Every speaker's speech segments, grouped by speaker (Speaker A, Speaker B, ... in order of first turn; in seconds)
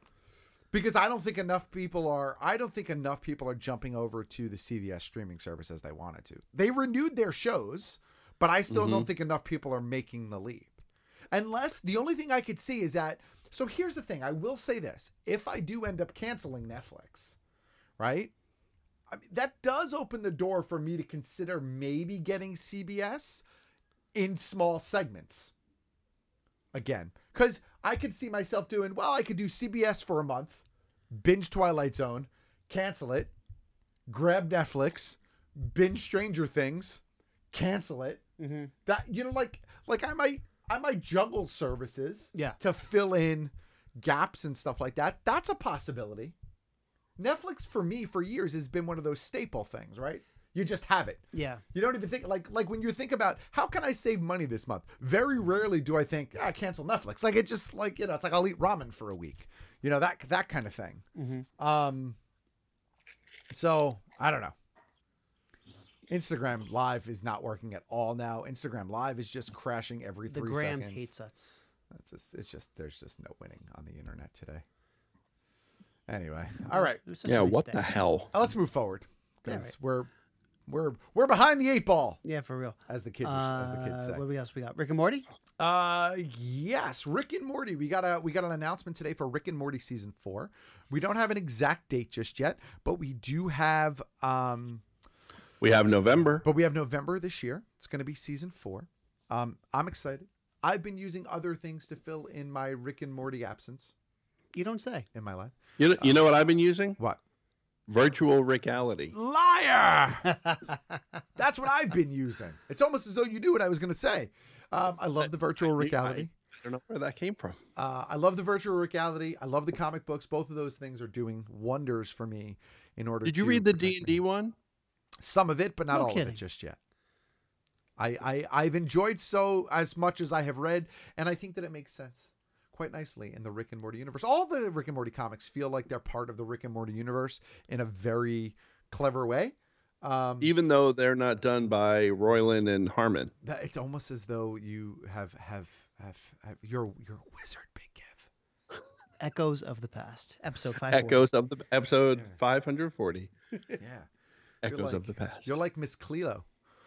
Speaker A: 0.7-10.8, 11.3-17.4, 18.0-18.3, 19.1-23.4, 24.1-25.5, 26.7-33.3, 34.1-38.2, 38.9-46.3, 47.2-61.0, 61.6-62.2, 63.5-64.5, 66.1-71.1, 71.9-74.6, 76.1-77.0, 78.3-80.1, 80.7-82.2, 82.9-84.2, 85.6-94.8, 96.4-103.9, 105.1-106.3, 109.1-110.3, 111.4-116.3, 117.8-124.2, 125.2-126.8, 128.0-140.5, 143.4-148.3, 153.7-154.1, 154.6-156.4
Speaker B: 8.7-9.1, 77.2-78.3, 95.6-96.4, 105.8-107.0, 107.9-109.1, 115.6-117.6, 123.2-124.5, 140.4-143.3, 150.9-153.3, 154.6-155.5
Speaker C: 38.4-38.7, 51.3-51.6, 61.1-61.5, 70.3-71.6, 76.7-77.8, 79.5-79.7, 82.2-85.2, 104.5-105.1, 110.4-110.7, 125.9-126.4, 149.2-151.2